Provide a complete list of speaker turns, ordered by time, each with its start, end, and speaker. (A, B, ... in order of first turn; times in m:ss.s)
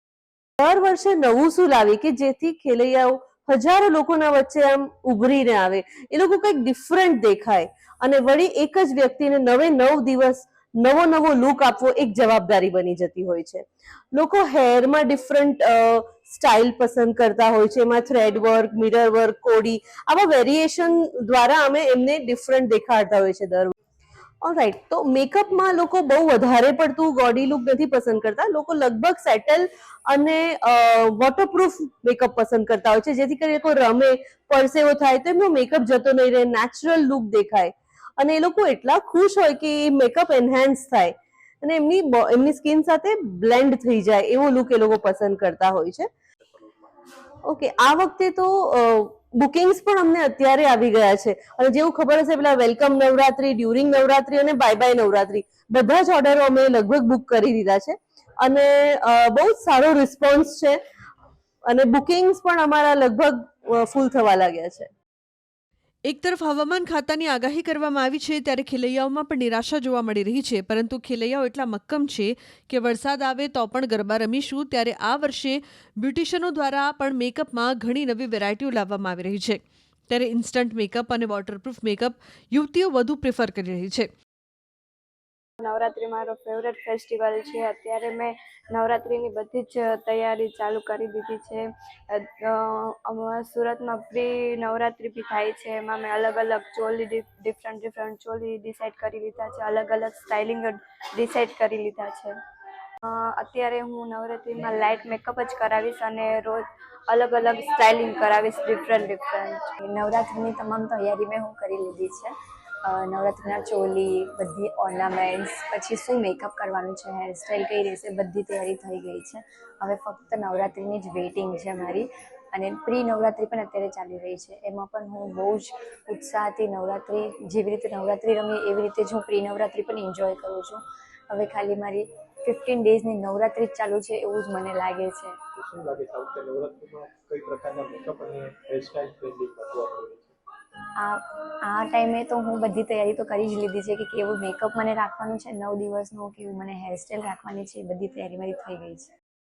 0:00.6-0:23.7 A
0:24.4-0:46.1 A
0:47.5-1:00.8 A
1:01.7-1:04.9 A
1:06.1-1:24.1 B
1:25.6-1:42.3 C
1:43.0-1:49.7 C
1:49.8-1:52.3 D
1:52.8-2:15.4 D
2:15.6-2:20.4 E
2:21.0-2:29.1 D